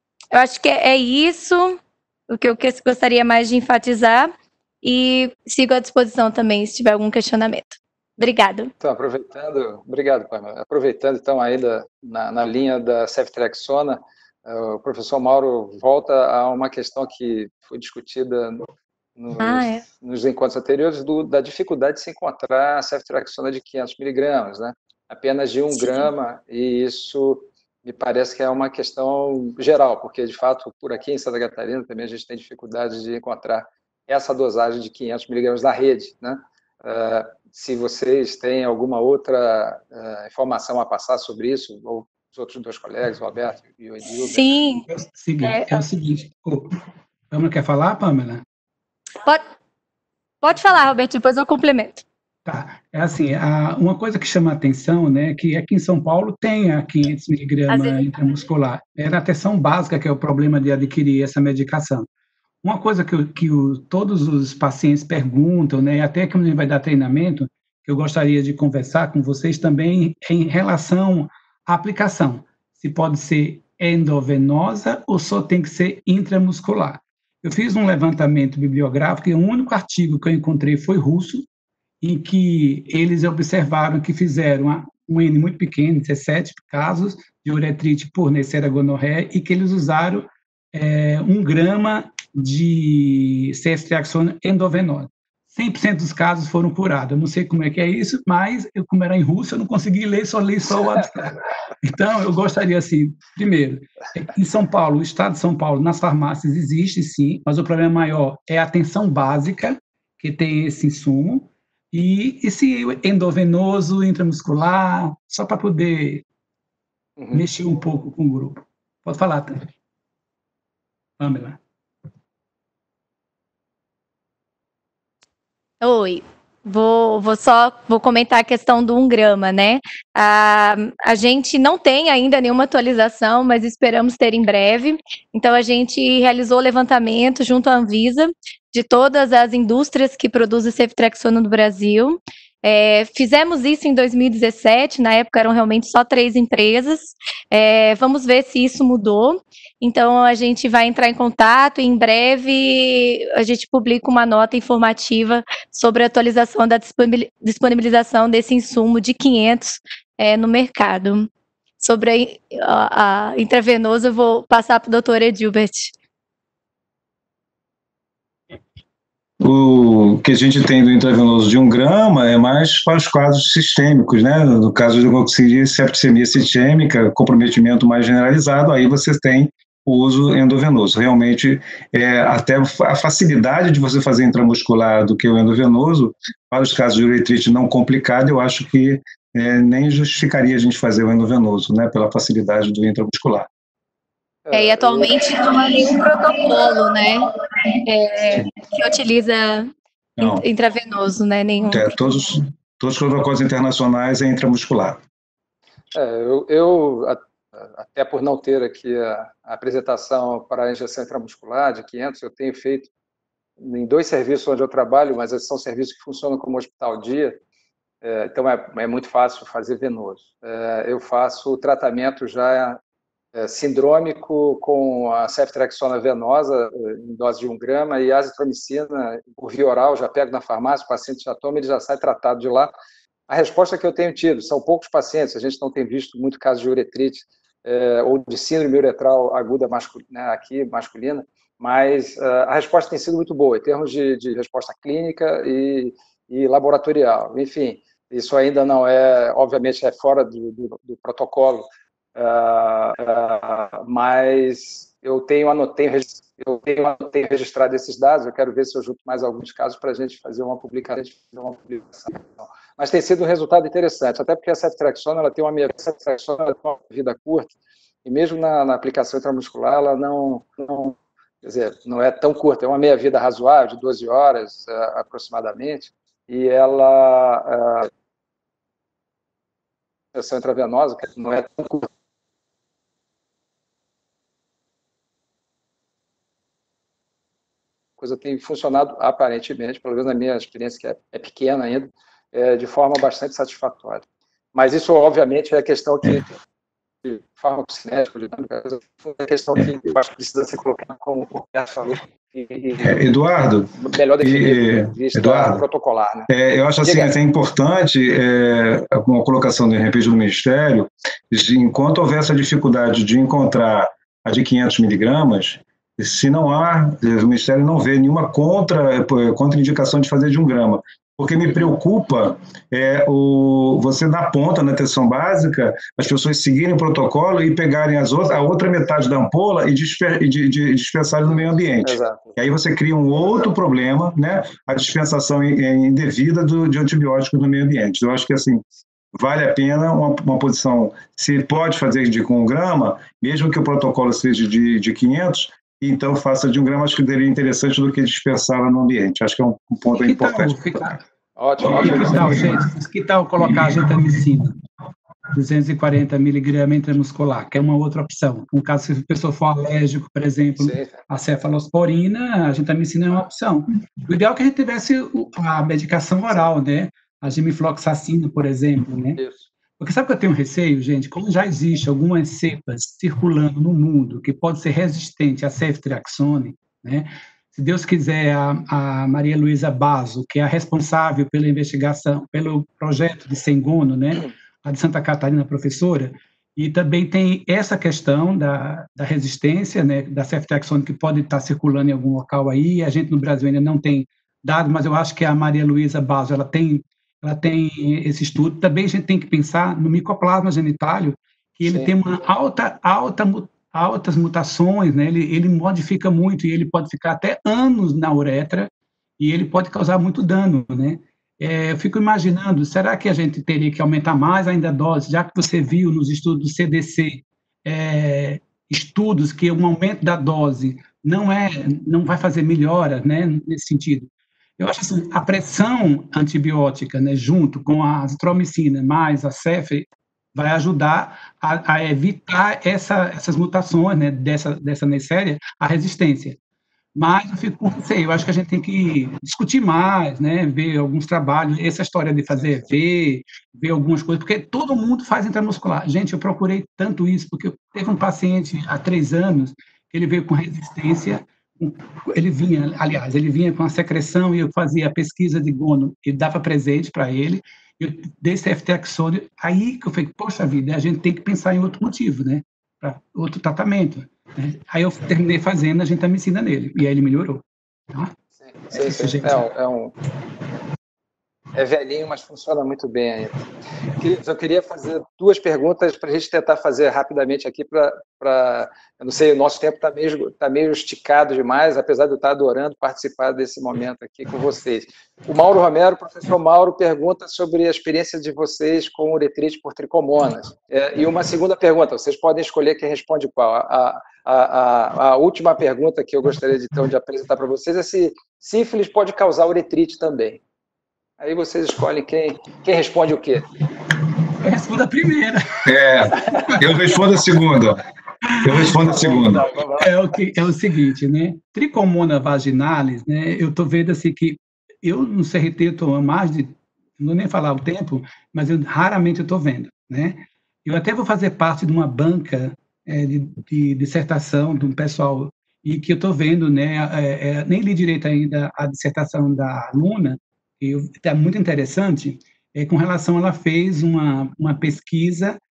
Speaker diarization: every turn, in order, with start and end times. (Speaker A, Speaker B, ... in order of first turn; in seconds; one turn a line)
Speaker A: 0.3-4.3
Speaker A: 4.8-8.7
Speaker B: 8.8-44.5
Speaker A: 19.4-19.8
Speaker A: 44.2-44.9
Speaker C: 45.0-46.7
Speaker A: 45.4-45.8
Speaker C: 47.3-48.4
Speaker A: 50.4-52.0
Speaker C: 52.5-62.1
Speaker A: 57.7-58.0
Speaker C: 62.6-81.5
Speaker C: 82.0-116.2
Speaker C: 117.3-119.7
Speaker C: 121.2-121.6
Speaker A: 125.8-161.3
Speaker A: 161.8-165.9
Speaker D: 169.4-193.5
Speaker B: 194.5-195.1
Speaker A: 194.5-197.3
Speaker A: 197.8-202.0
Speaker D: 200.2-200.4
Speaker D: 201.7-205.0
Speaker B: 205.9-212.9
Speaker B: 213.6-217.4
Speaker B: 218.0-222.8
Speaker B: 223.3-232.7
Speaker B: 233.3-267.5
Speaker B: 268.1-277.9
Speaker B: 280.1-281.9
Speaker B: 288.0-296.4
Speaker B: 297.0-303.0
Speaker D: 302.8-305.6
Speaker B: 303.8-306.3
Speaker D: 306.3-338.6
Speaker B: 306.8-307.1
Speaker B: 331.2-332.4
Speaker D: 339.1-350.7
Speaker C: 349.9-351.0
Speaker B: 351.4-352.5
Speaker D: 351.6-352.5
Speaker C: 351.7-354.6
Speaker C: 355.3-369.2
Speaker B: 360.6-361.0
Speaker B: 369.2-369.5
Speaker C: 369.8-436.4
Speaker B: 401.7-401.9
Speaker C: 437.0-468.1
Speaker B: 442.4-442.6
Speaker B: 468.4-469.9
Speaker C: 468.7-469.5
Speaker B: 471.5-500.4
Speaker B: 501.2-503.5
Speaker C: 504.4-505.7
Speaker D: 505.7-507.8
Speaker C: 508.2-508.9
Speaker D: 508.4-509.5
Speaker B: 508.8-509.9
Speaker C: 509.8-535.4